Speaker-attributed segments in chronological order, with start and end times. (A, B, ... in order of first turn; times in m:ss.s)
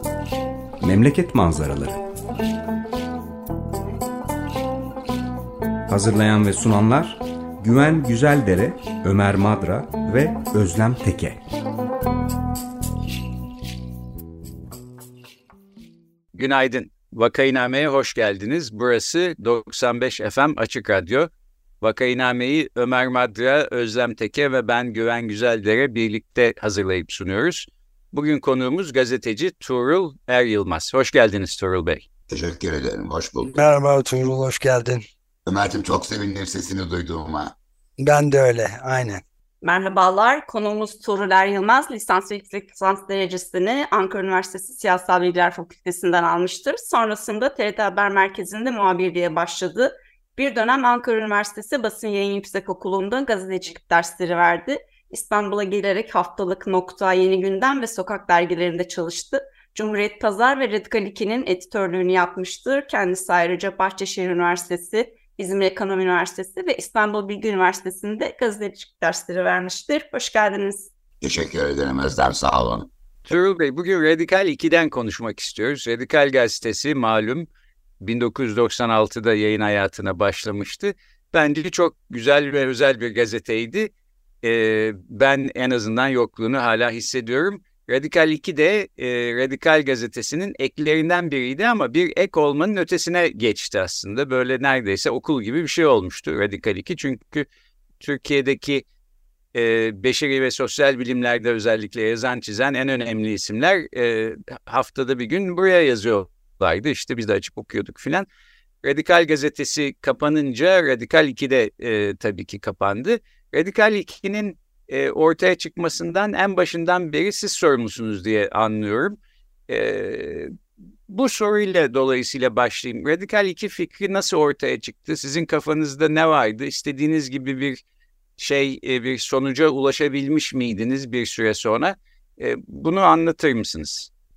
0:00.8-0:02.0 A
0:05.9-0:11.4 A
0:16.3-0:32.0 B
0:32.3-0:33.6 C
0:33.5-0:35.0 D
0:35.4-0:37.5 C
0:38.0-0:39.2 D
0:39.6-1:10.9 E
1:11.2-1:12.9 C
1:13.2-1:17.5 B
1:18.0-1:23.9 B
1:24.4-1:37.5 B
1:38.0-1:38.9 B
1:39.5-1:48.3 B
1:48.8-2:00.5 B
2:01.1-2:07.8 B
2:08.4-2:14.1 B